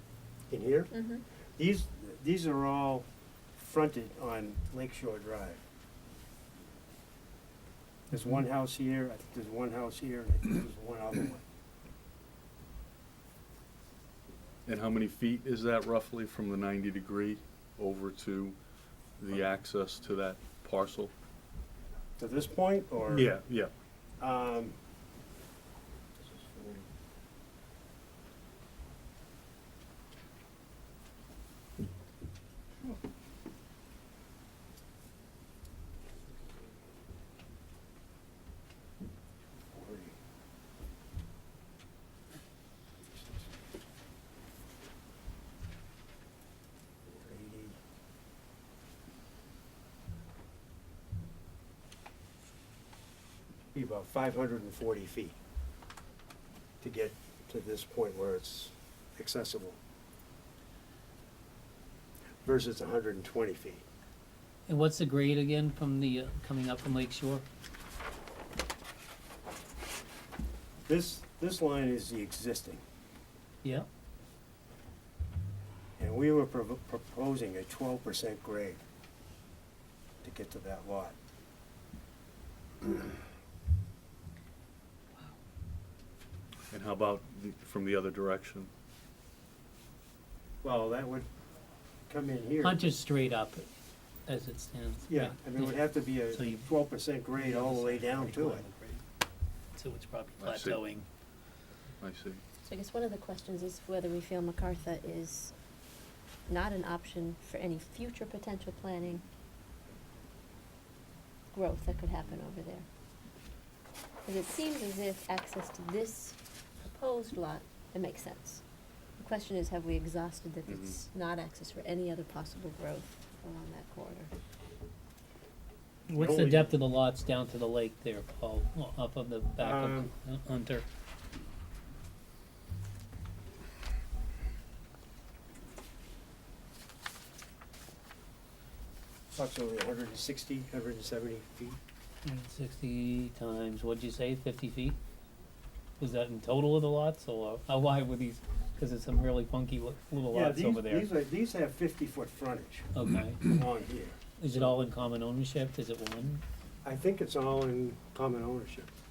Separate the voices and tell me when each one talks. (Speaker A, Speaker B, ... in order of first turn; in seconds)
Speaker A: 0.5-0.9, 1.6-3.0, 3.6-5.6, 8.1-11.4, 22.2-23.3, 24.2-24.8, 26.3-26.9, 39.7-40.1, 47.0-47.8, 53.7-55.4, 56.8-59.8, 62.4-63.8, 70.9-72.8, 76.0-78.8, 80.2-81.2, 90.6-91.3, 92.1-92.8, 95.1-98.6, 126.1-126.8, 129.6-130.1, 139.3-141.8, 150.3-154.7, 156.8-158.9
Speaker B: 0.9-1.2, 102.6-105.5, 106.5-109.2, 111.5-112.8, 114.2-118.6, 119.2-124.3
Speaker C: 14.7-18.6, 19.2-21.1, 23.1-23.7, 86.7-88.7, 100.4-100.8, 102.0-102.4, 120.7-121.0
Speaker D: 64.7-67.4, 92.6-93.7, 94.3-96.7, 97.3-99.0, 99.7-101.0, 126.1-130.8, 142.2-145.0, 146.0-151.1, 152.9-153.5, 154.4-156.4